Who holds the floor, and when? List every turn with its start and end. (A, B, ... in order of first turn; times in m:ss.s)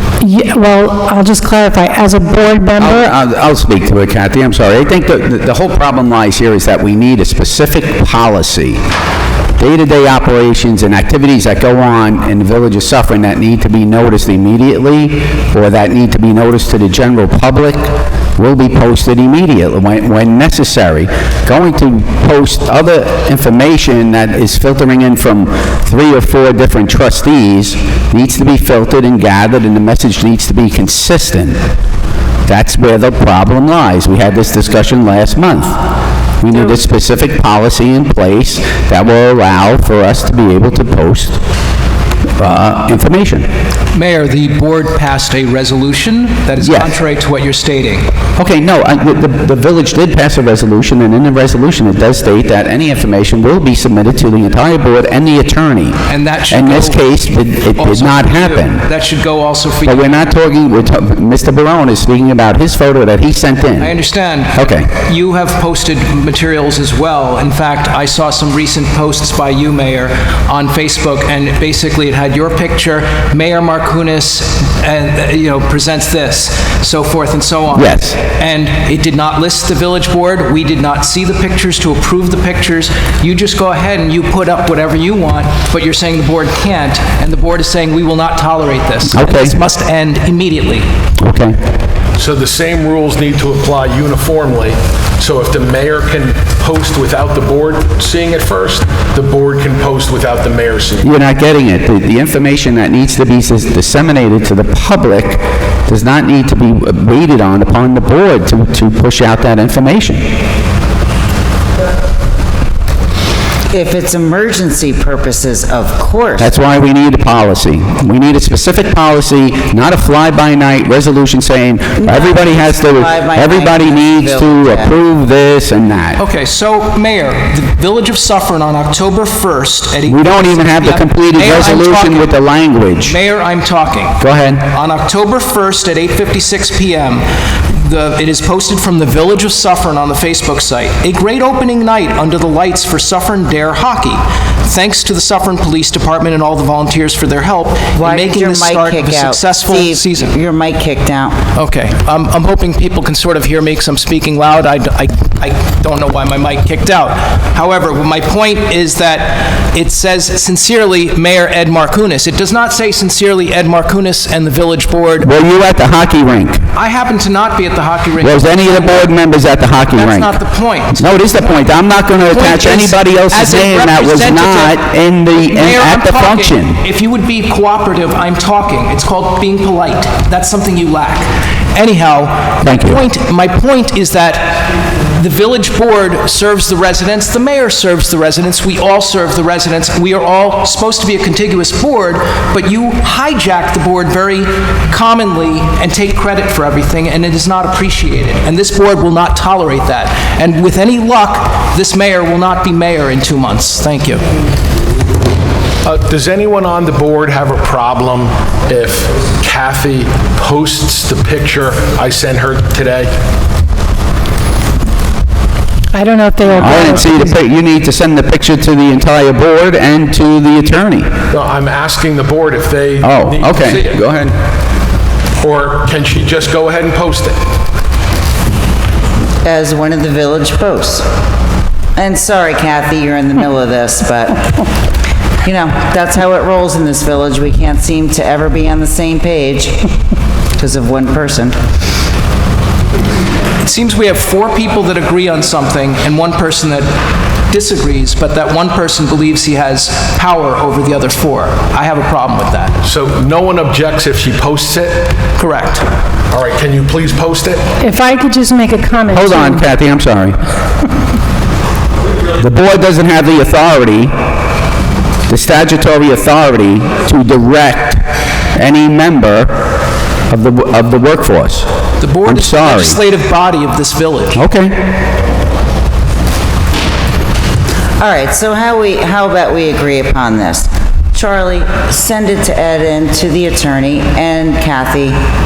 0:00.2-0:03.1 A
0:02.8-0:08.8 B
0:09.6-0:31.6 B
0:32.5-0:35.8 B
0:36.4-0:41.4 B
0:42.4-0:43.5 B
0:43.9-0:48.1 C
0:46.6-0:46.9 B
0:48.4-0:56.0 B
0:56.1-0:57.1 C
0:56.5-0:58.8 B
0:57.7-1:00.3 C
0:59.8-1:03.9 B
1:03.8-1:30.9 C
1:04.5-1:04.9 B
1:17.7-1:18.2 B
1:29.1-1:29.6 B
1:31.2-1:31.6 B
1:32.2-1:41.1 D
1:41.0-1:50.2 B
1:53.7-1:56.5 E
1:56.4-2:06.2 B
2:02.0-2:04.9 E
2:06.2-2:12.4 C
2:10.1-2:13.1 B
2:13.0-2:30.3 C
2:14.2-2:14.6 B
2:27.9-2:31.4 E
2:31.5-2:45.3 C
2:45.2-2:46.6 B
2:46.7-2:49.1 C
2:48.2-2:50.3 B
2:49.9-2:51.1 C
2:50.9-2:56.8 B
2:52.3-2:54.8 C
2:55.4-3:24.2 C
3:02.6-3:03.0 B
3:25.8-3:33.1 D
3:35.9-3:37.3 A
3:36.5-3:41.1 B
3:41.3-3:44.0 D
3:43.0-3:44.3 B
3:45.4-3:47.4 D
3:49.4-3:51.0 E
3:52.0-3:54.6 E
3:55.4-3:59.8 E
4:00.6-4:01.5 E
4:03.6-4:06.9 C
4:07.5-4:12.8 C
4:12.8-4:15.2 D
4:15.4-4:15.9 C
4:16.3-4:17.7 D
4:17.8-4:19.7 A
4:19.1-4:20.4 B
4:22.4-4:24.1 B
4:25.3-4:29.6 B
4:30.3-4:31.7 B
4:32.0-4:34.4 C
4:32.2-4:33.0 B
4:34.3-4:34.9 B
4:38.0-4:45.2 E